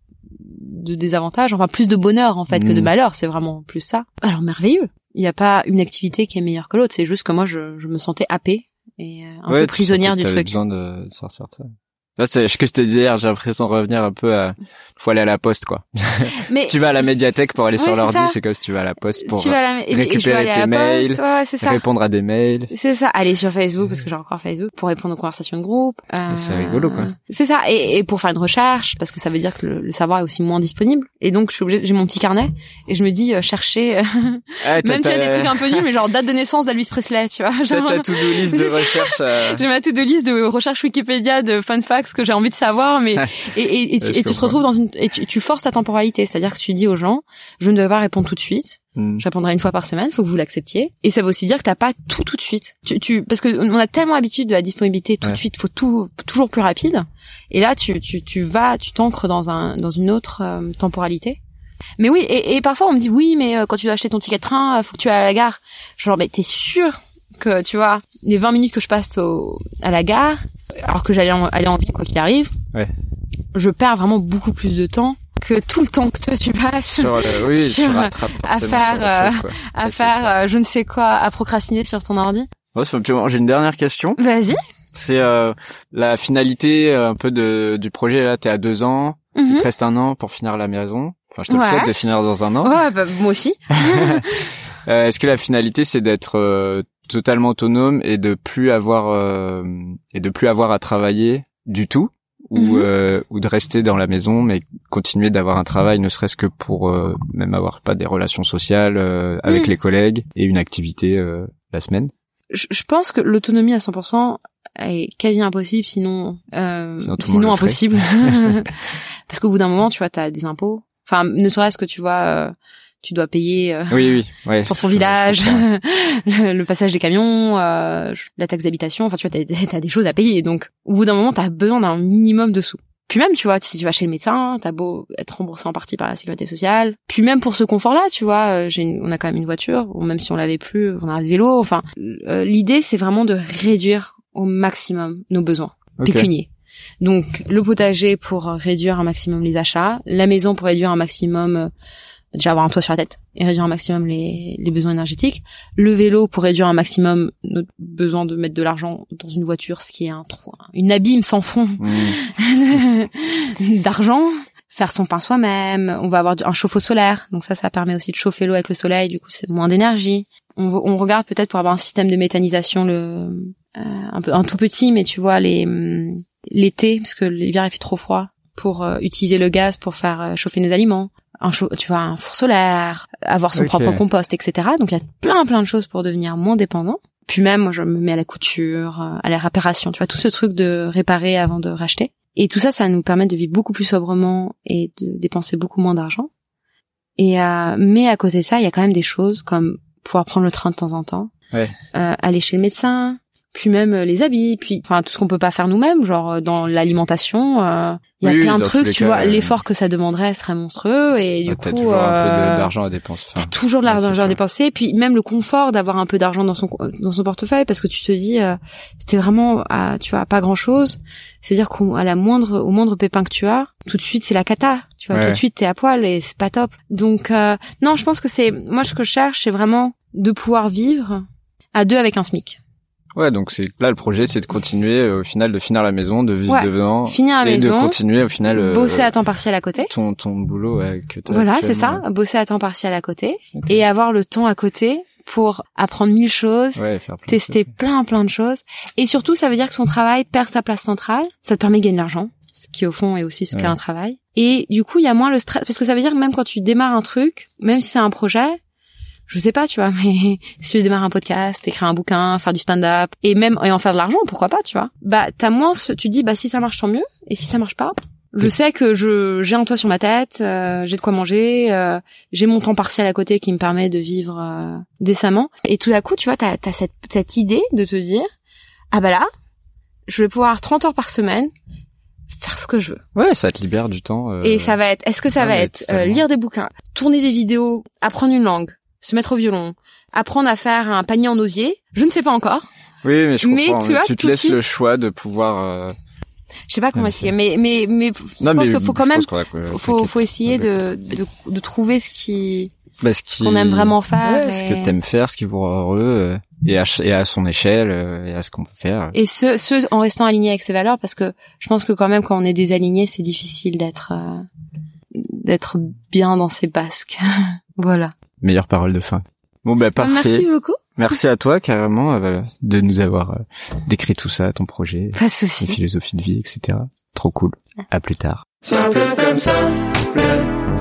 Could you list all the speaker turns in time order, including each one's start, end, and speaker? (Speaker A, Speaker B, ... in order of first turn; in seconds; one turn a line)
Speaker A: 0.3-10.6
Speaker B: 2.5-2.9
Speaker B: 9.5-22.7
Speaker A: 16.4-16.8
Speaker A: 17.8-18.4
Speaker A: 19.2-21.8
Speaker A: 22.7-61.4
Speaker B: 26.3-27.1
Speaker B: 34.6-35.8
Speaker B: 37.7-39.6
Speaker B: 44.0-44.6
Speaker B: 49.0-49.2
Speaker A: 62.0-72.5
Speaker A: 73.5-82.5
Speaker B: 76.9-80.3
Speaker B: 82.7-84.2
Speaker A: 84.2-84.6
Speaker B: 84.9-92.7
Speaker A: 89.3-89.7
Speaker A: 91.5-91.9
Speaker A: 92.6-94.5
Speaker B: 93.8-112.1
Speaker A: 102.5-102.9
Speaker A: 109.5-109.7
Speaker A: 112.5-118.7
Speaker B: 117.0-118.7
Speaker A: 119.3-146.5
Speaker B: 123.9-125.7
Speaker B: 146.0-146.3
Speaker A: 147.0-151.7
Speaker A: 152.3-196.3
Speaker B: 161.8-162.2
Speaker B: 183.5-184.0
Speaker A: 197.2-201.3
Speaker A: 201.9-212.7
Speaker B: 208.2-209.6
Speaker B: 211.5-214.4
Speaker A: 213.4-232.6
Speaker B: 225.1-225.4
Speaker B: 233.1-239.1
Speaker A: 236.5-238.0
Speaker A: 238.5-239.9
Speaker B: 239.8-242.0
Speaker A: 241.3-258.6
Speaker B: 243.5-243.8
Speaker B: 246.8-247.7
Speaker A: 259.3-278.3
Speaker A: 278.9-279.3
Speaker A: 280.1-281.5
Speaker A: 282.3-283.0
Speaker B: 283.1-284.8
Speaker A: 284.4-292.6
Speaker B: 285.4-286.2
Speaker B: 293.0-295.9
Speaker A: 293.4-294.6
Speaker A: 296.7-302.7
Speaker B: 296.9-297.3
Speaker B: 298.4-300.7
Speaker B: 303.0-309.1
Speaker A: 303.4-304.9
Speaker A: 309.1-314.4
Speaker A: 315.1-317.2
Speaker A: 317.8-318.1
Speaker B: 318.4-330.4
Speaker A: 320.0-320.8
Speaker A: 325.1-325.8